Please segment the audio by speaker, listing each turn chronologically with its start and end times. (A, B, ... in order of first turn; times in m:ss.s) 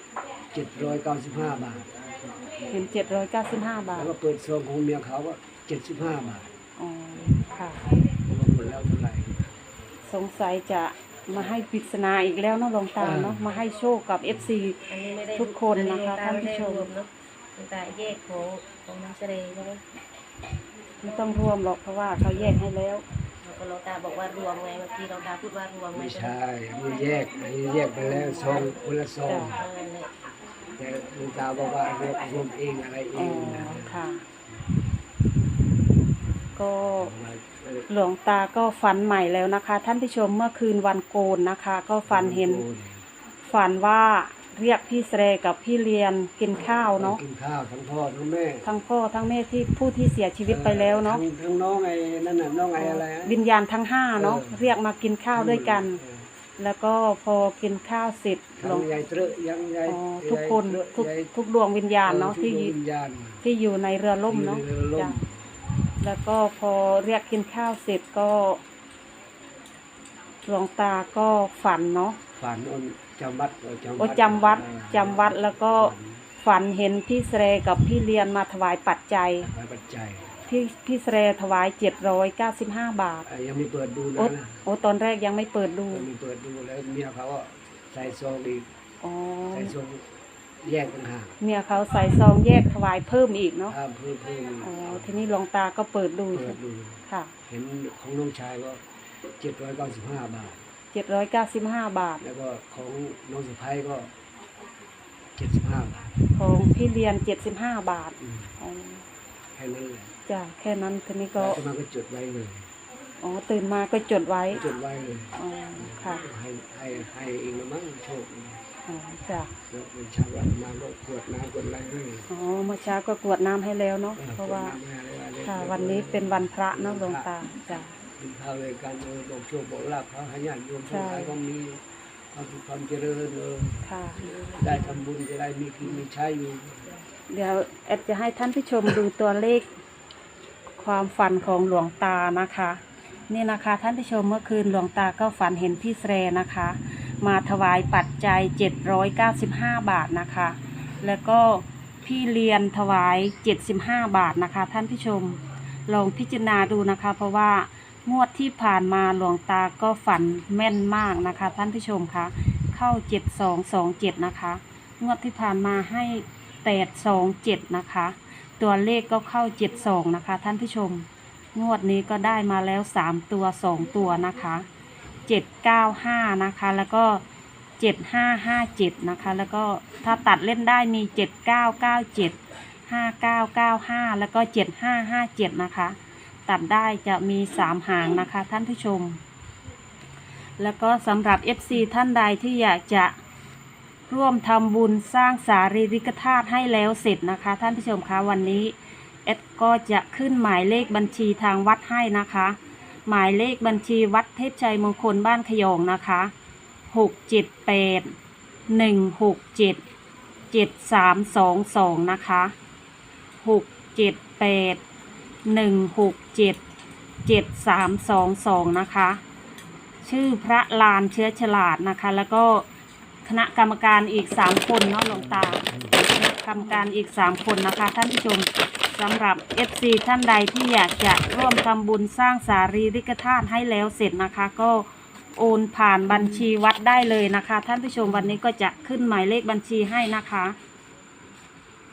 0:00.5-0:02.5 A
0:02.7-0:04.1 B
0:03.9-0:06.5 A
0:06.8-0:07.8 B
0:08.2-0:09.5 A
0:10.0-0:14.8 B
0:13.0-0:13.4 A
0:14.9-0:19.8 C
0:15.3-0:16.9 B
0:21.0-0:23.0 B
0:23.4-0:26.3 C
0:25.9-0:29.6 A
0:28.0-0:28.7 B
0:29.2-0:29.5 B
0:29.4-0:30.1 C
0:30.8-0:34.0 A
0:33.1-0:34.2 B
0:36.6-0:37.1 B
0:37.0-0:37.9 A
0:37.9-0:42.6 B
0:42.1-0:43.0 A
0:43.4-0:47.2 B
0:47.0-0:48.7 A
0:48.6-0:51.2 B
0:50.5-0:53.4 A
0:52.8-0:56.0 B
0:54.1-0:54.7 A
0:55.3-0:56.3 A
0:56.6-0:58.9 B
0:58.6-1:01.3 A
0:59.9-1:02.7 B
1:02.0-1:03.4 A
1:03.4-1:05.2 B
1:04.2-1:05.4 A
1:06.0-1:08.6 B
1:10.4-1:12.2 B
1:12.4-1:16.2 A
1:14.0-1:19.5 B
1:19.4-1:20.4 A
1:20.5-1:23.2 B
1:23.2-1:24.6 A
1:24.2-1:26.1 B
1:25.9-1:28.7 A
1:29.0-1:29.7 B
1:29.5-1:30.0 A
1:30.6-1:31.4 A
1:31.4-1:33.7 B
1:33.7-1:35.1 A
1:34.6-1:37.3 B
1:36.3-1:38.8 A
1:39.4-1:40.6 A
1:40.9-1:42.2 B
1:42.2-1:44.1 A
1:45.4-1:46.1 A
1:46.3-1:49.0 B
1:48.2-1:48.5 A
1:49.5-1:50.1 A
1:50.3-1:51.6 B
1:51.4-1:52.7 A
1:53.2-1:54.6 B
1:54.5-1:58.6 A
1:55.4-1:56.2 B
1:58.9-1:59.5 B
1:59.7-2:02.3 A
2:02.3-2:04.8 B
2:04.2-2:07.3 A
2:05.4-2:07.9 B
2:08.2-2:16.9 A
2:10.9-2:11.3 B
2:13.8-2:14.2 B
2:14.2-2:15.0 C
2:17.3-2:19.7 B
2:20.8-2:54.7 B
2:55.3-2:57.2 B
2:57.8-3:09.2 B
3:10.6-3:13.1 B
3:14.1-3:26.3 B
3:26.9-3:28.1 B
3:28.7-3:29.8 B
3:30.5-3:32.5 B
3:33.4-3:34.8 B
3:35.4-3:36.6 B
3:37.2-3:39.2 B
3:40.0-3:42.6 B
3:43.2-4:00.6 B
3:45.1-3:46.0 A